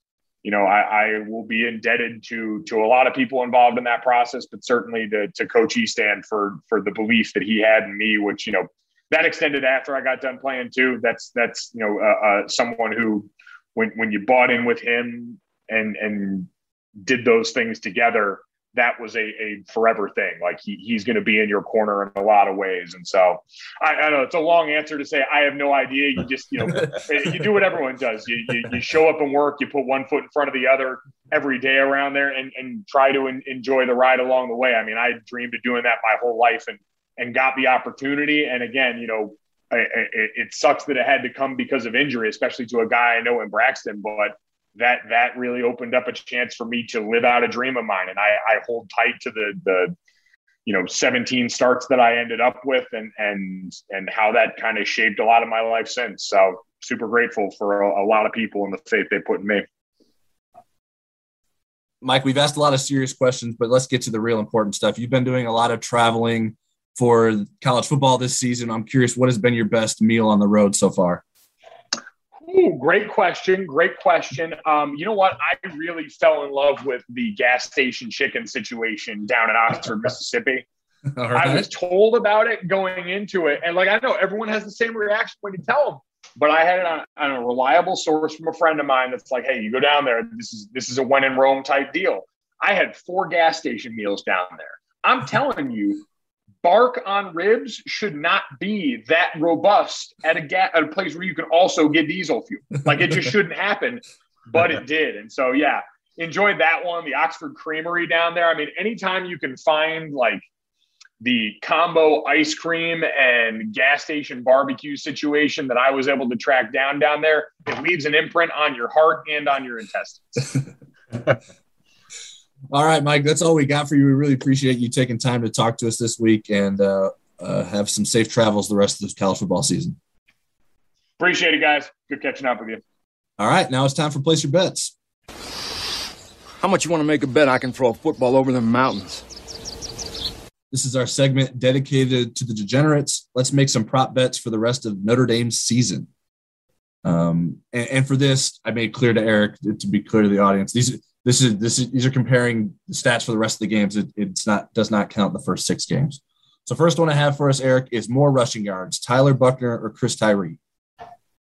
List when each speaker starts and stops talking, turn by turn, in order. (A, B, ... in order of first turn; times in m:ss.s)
0:00.4-0:16.5 A
0:17.0-0:49.9 A
0:50.6-0:59.6 A
1:02.0-1:11.2 B
1:12.4-1:20.6 A
1:21.1-1:21.7 B
1:21.3-1:36.0 A
1:36.6-1:50.4 A
1:51.2-2:00.4 A
2:02.7-2:10.0 B
2:11.2-2:12.8 A
2:13.4-2:14.9 B
2:16.6-2:19.2 C
2:20.7-2:26.1 B
2:27.0-2:40.6 B